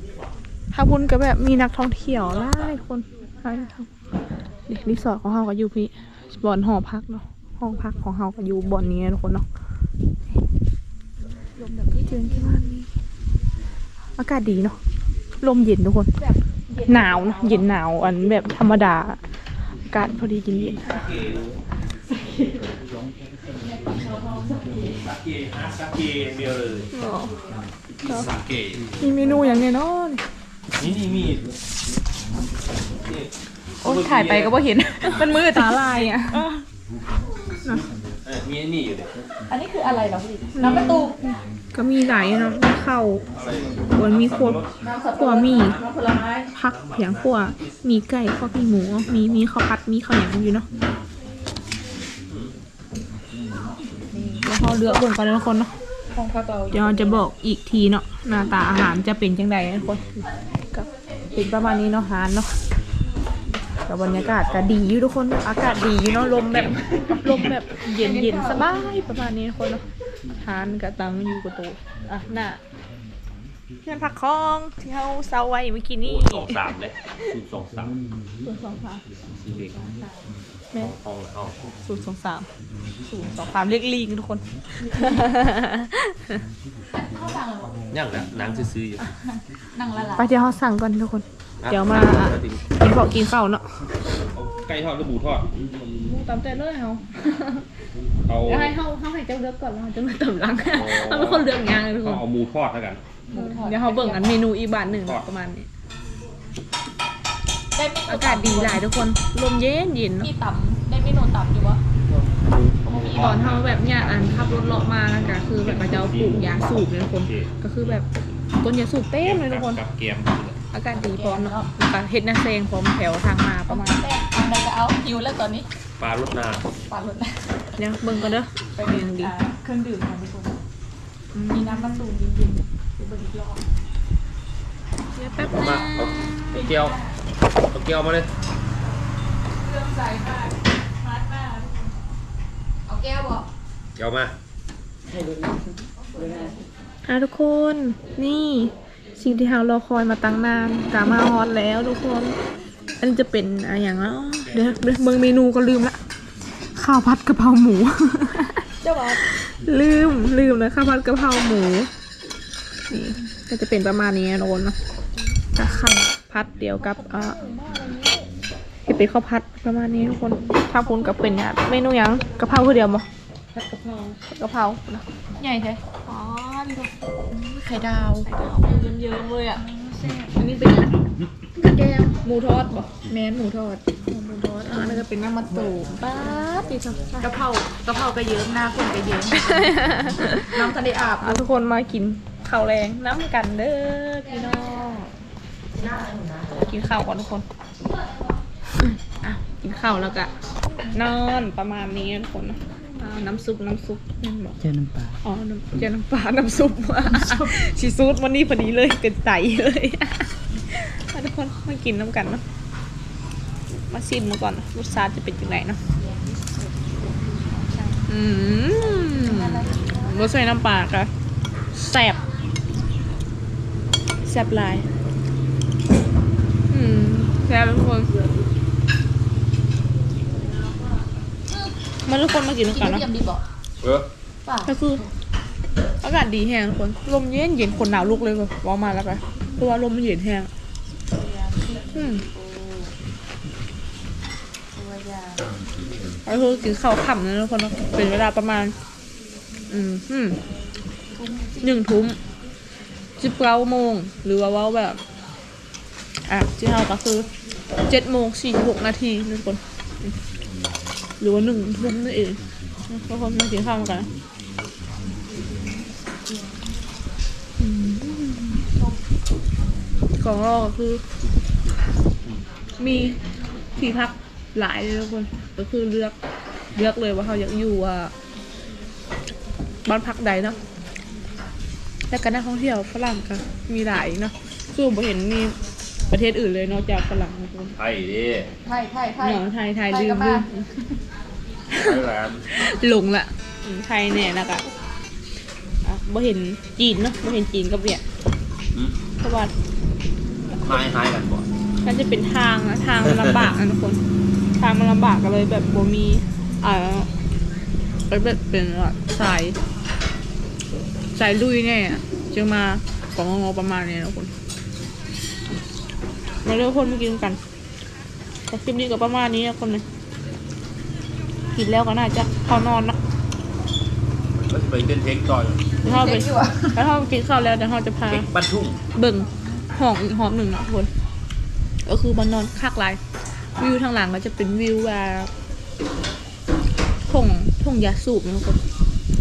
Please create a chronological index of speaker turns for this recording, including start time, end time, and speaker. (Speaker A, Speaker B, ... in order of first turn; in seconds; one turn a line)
Speaker A: 0.7-3.9
Speaker A: 4.7-9.5
Speaker B: 11.6-12.6
Speaker A: 12.0-12.9
Speaker A: 14.2-14.8
Speaker A: 15.4-16.1
Speaker B: 16.2-17.7
Speaker A: 16.9-19.2
Speaker A: 19.9-20.8
Speaker C: 20.8-21.6
Speaker B: 22.1-22.7
Speaker B: 23.6-25.0
Speaker C: 25.0-26.9
Speaker A: 26.9-27.4
Speaker C: 28.0-28.8
Speaker A: 29.0-30.2
Speaker C: 30.8-31.4
Speaker C: 33.0-33.3
Speaker C: 33.8-35.2
Speaker B: 33.8-36.6
Speaker A: 35.0-36.4
Speaker C: 38.2-39.1
Speaker B: 39.5-41.2
Speaker A: 40.5-43.2
Speaker C: 43.3-44.7
Speaker A: 44.0-45.8
Speaker B: 44.8-46.5
Speaker A: 46.5-50.7
Speaker C: 46.8-47.2
Speaker B: 54.1-55.0
Speaker A: 54.4-55.7
Speaker B: 56.1-57.2
Speaker A: 56.7-60.0
Speaker A: 60.7-62.5
Speaker A: 63.9-69.8
Speaker C: 63.9-64.8
Speaker C: 65.6-67.6
Speaker B: 67.9-68.7
Speaker A: 70.4-72.6
Speaker A: 73.8-76.6
Speaker C: 76.0-78.0
Speaker A: 78.4-79.0
Speaker C: 79.4-79.9
Speaker B: 80.0-80.2
Speaker C: 80.8-81.5
Speaker A: 81.8-82.5
Speaker A: 83.1-86.4
Speaker B: 84.9-85.2
Speaker B: 87.0-87.9
Speaker C: 87.9-89.1
Speaker B: 89.2-90.3
Speaker A: 90.2-93.6
Speaker C: 91.6-92.6
Speaker C: 94.3-95.7
Speaker A: 96.0-97.6
Speaker C: 98.3-98.8
Speaker A: 98.5-102.2
Speaker C: 100.7-103.0
Speaker B: 103.3-104.4
Speaker A: 103.3-105.7
Speaker C: 104.9-105.2
Speaker B: 107.8-108.8
Speaker A: 108.1-110.3
Speaker B: 110.2-111.8
Speaker B: 112.8-113.6
Speaker A: 113.1-118.1
Speaker C: 113.1-113.5
Speaker C: 115.6-116.7
Speaker C: 117.2-117.5
Speaker A: 118.6-119.8
Speaker C: 119.2-120.6
Speaker A: 120.7-124.0
Speaker B: 120.9-121.7
Speaker B: 123.7-125.7
Speaker C: 126.0-126.7
Speaker B: 126.9-130.6
Speaker A: 127.8-129.3
Speaker A: 131.3-132.1
Speaker B: 131.5-133.7
Speaker A: 135.1-136.6
Speaker C: 135.4-137.0
Speaker B: 136.5-137.1
Speaker C: 137.7-138.3
Speaker B: 139.6-141.9
Speaker B: 142.9-143.5
Speaker C: 144.0-144.3
Speaker B: 146.0-146.6
Speaker A: 147.1-152.4
Speaker A: 153.0-156.0
Speaker A: 156.8-158.7
Speaker B: 158.8-159.2
Speaker A: 159.3-161.9
Speaker A: 162.9-164.8
Speaker A: 165.6-167.4
Speaker B: 165.6-165.9
Speaker B: 166.8-168.3
Speaker A: 168.9-173.1
Speaker B: 170.8-171.1
Speaker B: 173.5-174.2
Speaker A: 174.2-175.1
Speaker B: 175.4-176.0
Speaker A: 176.1-179.6
Speaker B: 177.3-180.8
Speaker A: 180.4-180.9
Speaker B: 181.6-182.2
Speaker A: 182.2-183.0
Speaker B: 182.9-183.9
Speaker A: 184.0-187.2
Speaker B: 184.6-185.8
Speaker B: 187.2-191.4
Speaker A: 189.3-195.1
Speaker A: 196.5-197.4
Speaker A: 199.2-200.3
Speaker A: 200.9-204.6
Speaker A: 205.1-212.4
Speaker B: 207.1-207.5
Speaker A: 213.7-215.8
Speaker B: 216.0-218.0
Speaker A: 218.1-221.1
Speaker B: 218.9-220.2
Speaker A: 221.7-222.2
Speaker A: 224.2-224.9
Speaker A: 226.7-228.1
Speaker A: 232.1-233.1
Speaker B: 232.7-233.4
Speaker C: 233.8-234.1
Speaker B: 234.4-234.7
Speaker A: 234.7-235.0
Speaker A: 236.0-240.5
Speaker B: 241.1-242.9
Speaker A: 241.9-242.2
Speaker B: 244.8-245.5
Speaker A: 246.3-248.8
Speaker A: 249.7-250.4
Speaker B: 251.2-251.7
Speaker A: 251.6-252.2
Speaker A: 253.2-255.0
Speaker A: 256.3-257.3
Speaker A: 257.9-260.1
Speaker A: 261.2-264.1
Speaker A: 267.6-268.6
Speaker A: 270.2-271.0
Speaker A: 272.8-273.2
Speaker A: 273.8-276.1
Speaker A: 276.7-278.1
Speaker A: 279.9-280.6
Speaker A: 282.1-285.6
Speaker A: 286.1-287.8
Speaker C: 287.8-288.5
Speaker B: 288.6-290.5
Speaker A: 289.2-290.7
Speaker A: 291.7-294.7
Speaker C: 291.8-292.4
Speaker A: 295.8-298.0
Speaker A: 299.2-299.5
Speaker C: 300.6-301.5
Speaker A: 301.8-304.0
Speaker C: 303.1-303.5
Speaker A: 304.6-307.1
Speaker A: 308.1-309.6
Speaker A: 311.1-314.3
Speaker A: 316.4-317.4
Speaker A: 318.5-319.9
Speaker A: 321.5-323.0
Speaker C: 324.4-325.7
Speaker A: 325.8-328.2
Speaker B: 325.8-326.8
Speaker C: 328.1-328.8
Speaker A: 328.9-330.9
Speaker A: 331.9-333.0
Speaker A: 333.6-335.3
Speaker A: 337.1-338.6